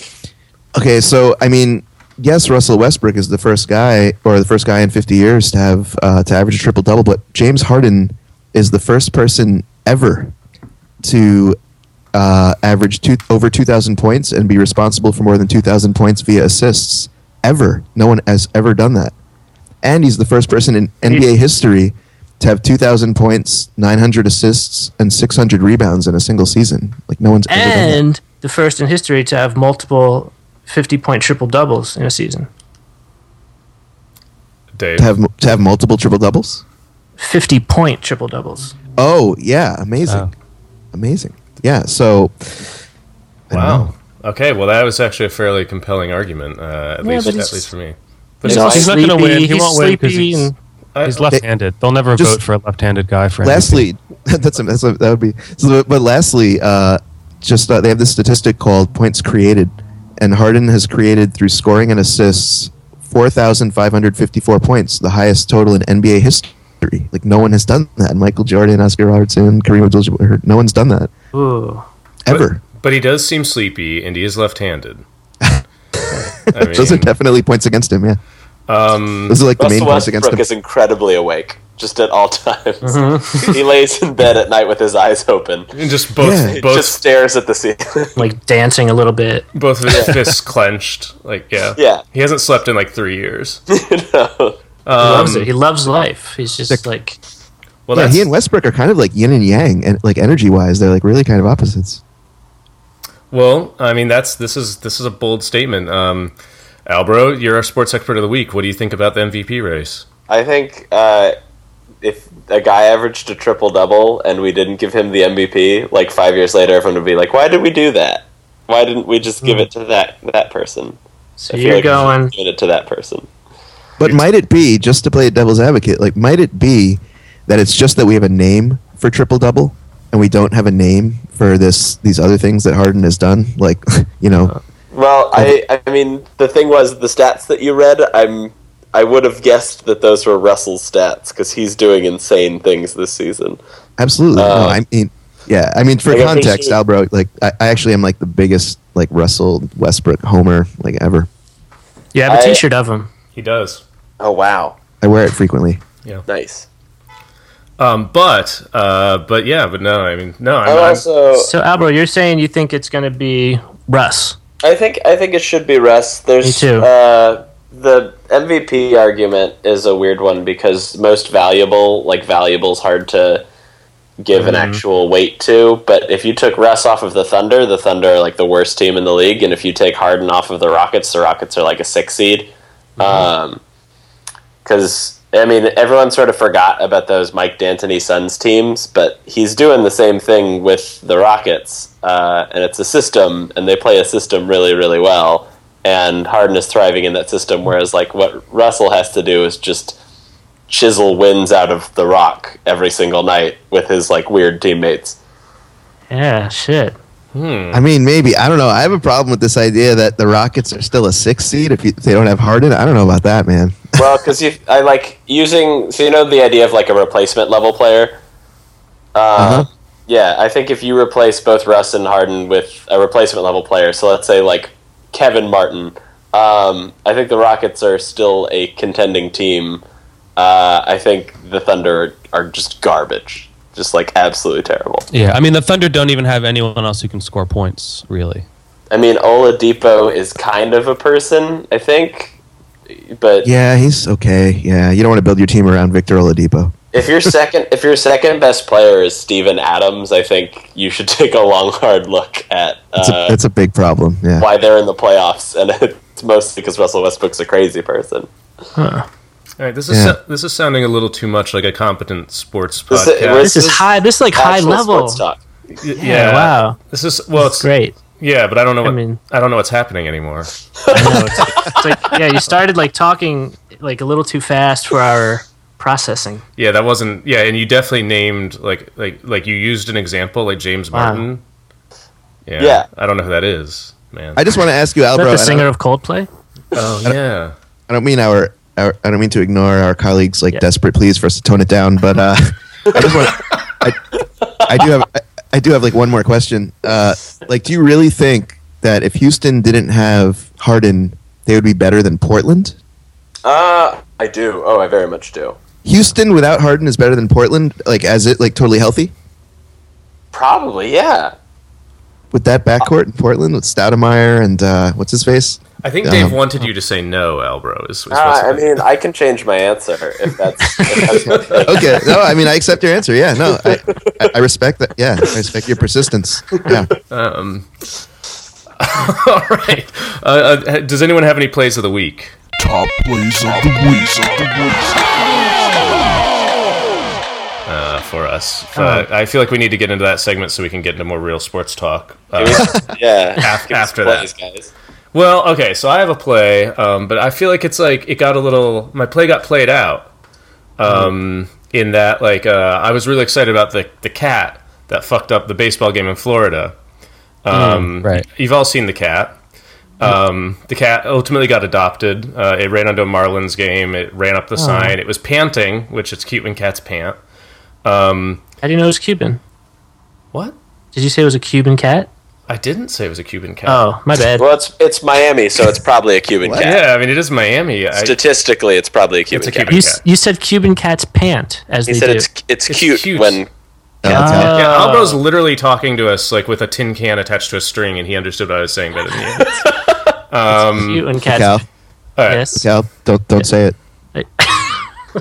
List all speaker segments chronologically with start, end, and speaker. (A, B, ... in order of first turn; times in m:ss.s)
0:00.8-0:10.3 A
0:11.0-0:11.6 A
0:12.1-0:19.1 A
0:19.8-0:28.0 A
0:27.5-0:32.5 B
0:34.7-0:35.1 C
0:35.0-0:36.6 A
0:37.2-0:38.7 B
0:39.0-0:40.3 A
0:40.9-0:42.8 A
0:43.5-0:43.9 A
0:43.5-0:48.9 C
0:47.0-0:47.7 B
0:48.5-0:50.5 D
0:48.5-0:50.6 B
0:51.0-0:51.2 C
0:51.1-0:53.8 D
0:52.2-0:52.4 A
0:53.4-1:11.1 A
1:11.3-1:11.9 B
1:12.2-1:12.6 A
1:12.3-1:15.0 C
1:15.4-1:18.2 A
1:16.5-1:17.1 C
1:18.7-1:19.4 C
1:19.3-1:20.4 A
1:19.6-1:25.7 E
1:22.8-1:23.5 B
1:25.7-1:27.0 C
1:26.2-1:26.6 A
1:26.5-1:28.2 E
1:28.2-1:29.4 B
1:29.5-1:33.6 C
1:29.9-1:30.1 E
1:31.8-1:32.0 E
1:33.7-1:34.6 E
1:34.8-1:35.5 C
1:35.0-1:37.2 B
1:37.9-1:38.3 C
1:37.9-1:42.0 A
1:43.3-1:46.3 C
1:46.9-1:50.0 C
1:50.3-1:51.4 E
1:52.0-2:01.0 E
2:01.4-2:02.3 B
2:01.5-2:03.3 E
2:04.0-2:14.6 A
2:14.9-2:23.6 E
2:24.0-2:31.3 A
2:24.4-2:24.8 E
2:26.1-2:26.8 E
2:32.1-2:33.1 B
2:32.3-2:32.6 E
2:33.4-2:33.8 C
2:34.2-2:34.8 E
2:35.0-2:35.8 A
2:36.3-2:36.7 E
2:37.8-2:41.1 C
2:40.6-2:41.5 E
2:41.3-2:44.4 B
2:44.6-2:53.4 E
2:46.4-2:46.9 B
2:54.2-3:03.6 E
2:54.4-2:54.7 C
3:04.6-3:20.0 E
3:20.7-3:25.2 E
3:26.1-3:27.0 B
3:27.3-3:27.8 C
3:27.7-3:34.0 A
3:34.0-3:38.2 E
3:39.2-3:49.8 E
3:39.4-3:39.7 A
3:50.4-3:55.1 E
3:55.1-3:58.4 D
3:58.9-4:02.4 E
4:02.9-4:03.5 E
4:03.4-4:06.7 A
4:06.9-4:13.4 E
4:13.0-4:14.5 A
4:14.4-4:18.3 E
4:18.8-4:19.1 B
4:19.6-4:23.5 C
4:19.9-4:20.2 A
4:22.9-4:25.4 E
4:23.4-4:25.2 B
4:25.8-4:30.5 C
4:26.0-4:26.8 B
4:27.4-4:28.0 B
4:28.8-4:29.2 B
4:30.9-4:31.8 E
4:30.9-4:36.4 B
4:36.6-4:41.4 C
4:40.9-4:41.2 B
4:42.5-4:44.4 C
4:42.6-4:42.9 E
4:44.4-4:45.7 A
4:45.2-4:46.3 B
4:46.7-4:47.5 C
4:47.9-4:54.0 A
4:54.6-5:02.8 A
5:03.4-5:05.6 E
5:05.8-5:09.1 A
5:10.3-5:11.3 E
5:12.3-5:16.4 A
5:15.8-5:18.8 C
5:18.1-5:22.1 E
5:21.0-5:21.7 C
5:21.6-5:26.9 A
5:23.6-5:24.3 E
5:27.1-5:27.7 C
5:28.8-5:32.4 C
5:32.6-5:35.5 F
5:37.7-5:44.3 C
5:38.8-5:39.1 B
5:42.4-5:44.7 E
5:45.1-5:50.1 C
5:50.8-5:56.7 C
5:57.4-5:59.4 C
5:57.5-5:57.8 B
5:57.5-5:58.3 D
6:00.0-6:07.2 C
6:04.6-6:05.0 B
6:07.8-6:08.4 C
6:08.6-6:09.4 B
6:10.9-6:12.1 B
6:12.5-6:13.8 C
6:13.7-6:14.5 B
6:14.4-6:16.8 E
6:16.4-6:16.7 A
6:16.6-6:18.2 C
6:17.9-6:19.8 E
6:19.3-6:20.0 C
6:19.7-6:22.3 B
6:21.9-6:23.5 E
6:22.7-6:23.4 C
6:24.0-6:24.6 A
6:24.1-6:25.2 B
6:24.1-6:29.7 C
6:30.3-6:31.1 C
6:30.5-6:31.6 B
6:31.2-6:31.7 A
6:32.2-6:32.6 C
6:32.2-6:32.7 B
6:32.6-6:33.8 A
6:34.2-6:34.8 B